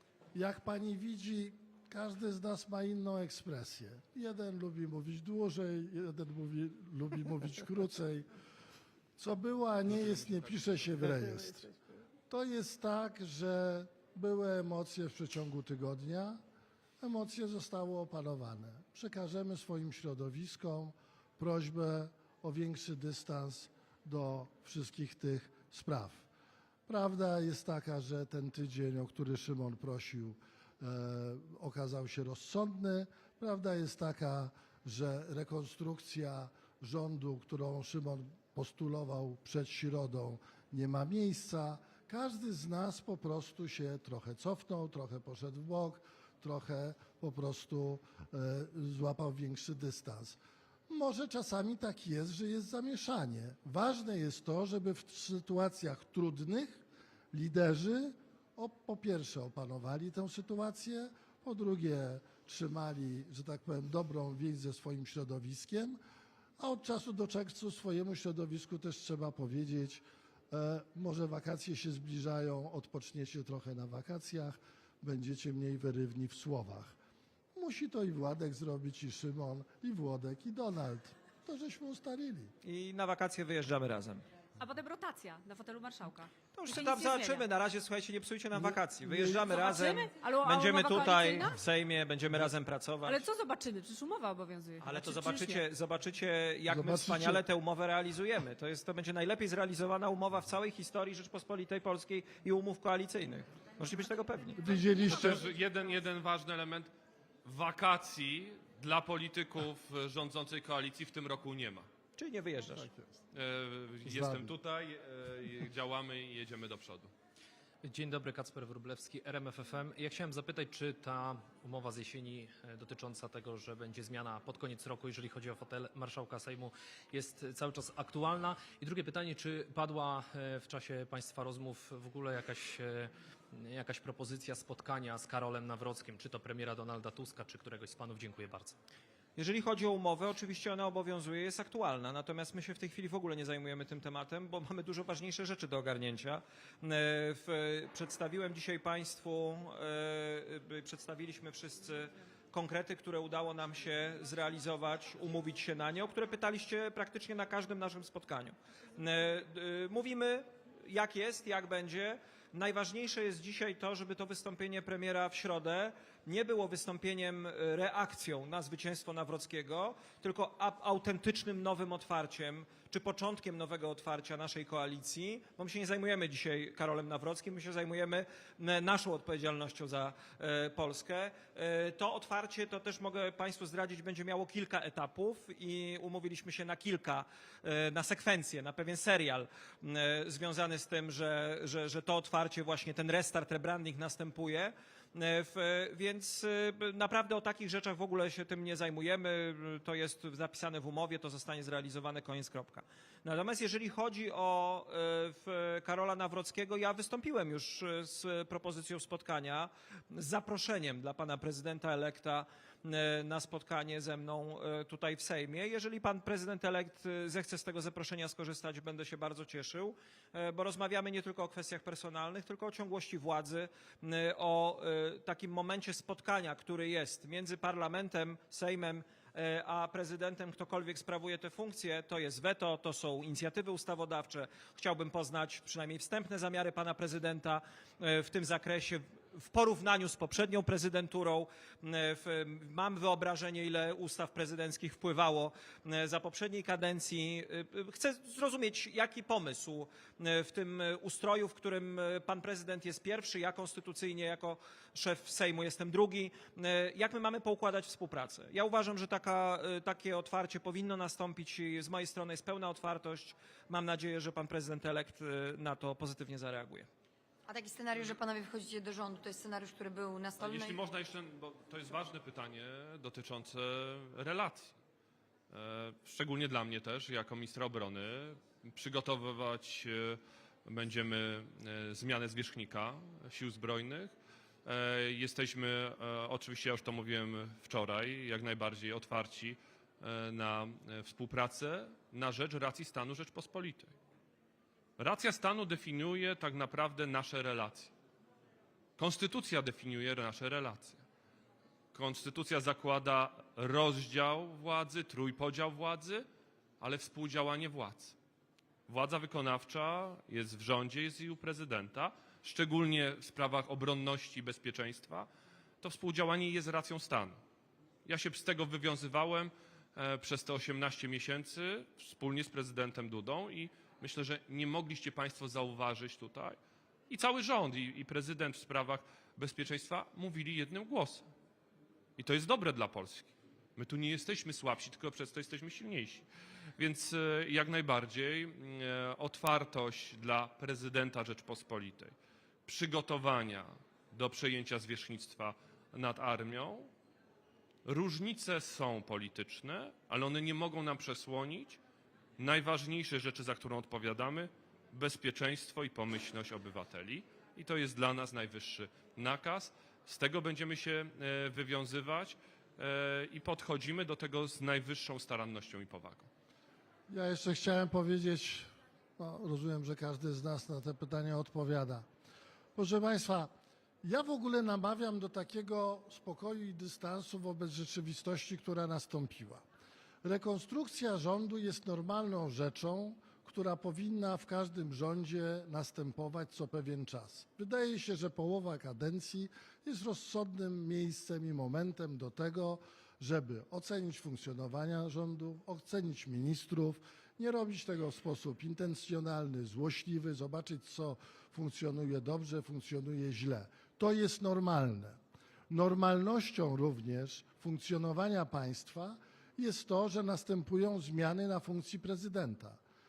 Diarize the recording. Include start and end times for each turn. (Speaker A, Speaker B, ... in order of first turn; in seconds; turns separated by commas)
Speaker A: 0.3-8.3, Speaker A: 9.2-11.7, Speaker A: 12.3-16.4, Speaker A: 17.0-26.2, Speaker A: 26.9-66.0, Speaker A: 66.6-76.9, Speaker A: 77.5-82.5, Speaker B: 82.6-84.2, Speaker C: 84.6-87.4, Speaker B: 86.5-93.2, Speaker A: 88.5-89.4, Speaker C: 89.4-91.6, Speaker C: 93.0-95.6, Speaker B: 94.8-104.6, Speaker A: 96.7-97.4, Speaker A: 104.6-105.4, Speaker D: 105.0-106.9, Speaker D: 107.4-111.9, Speaker B: 112.2-112.9, Speaker A: 112.8-113.0, Speaker D: 113.3-117.1, Speaker A: 114.0-114.5, Speaker E: 117.8-138.8, Speaker B: 139.4-266.9, Speaker F: 267.5-270.8, Speaker D: 270.4-274.8, Speaker D: 275.5-284.1, Speaker D: 284.6-293.9, Speaker D: 295.0-297.9, Speaker D: 299.0-301.0, Speaker D: 301.9-306.2, Speaker D: 306.8-308.1, Speaker D: 308.9-315.3, Speaker D: 315.8-317.4, Speaker D: 318.0-326.6, Speaker D: 327.1-331.2, Speaker D: 332.2-336.2, Speaker D: 336.8-342.1, Speaker D: 342.6-346.9, Speaker D: 347.8-351.8, Speaker D: 352.4-366.3, Speaker A: 367.1-372.1, Speaker A: 372.8-373.5, Speaker A: 374.0-379.6, Speaker A: 380.2-412.8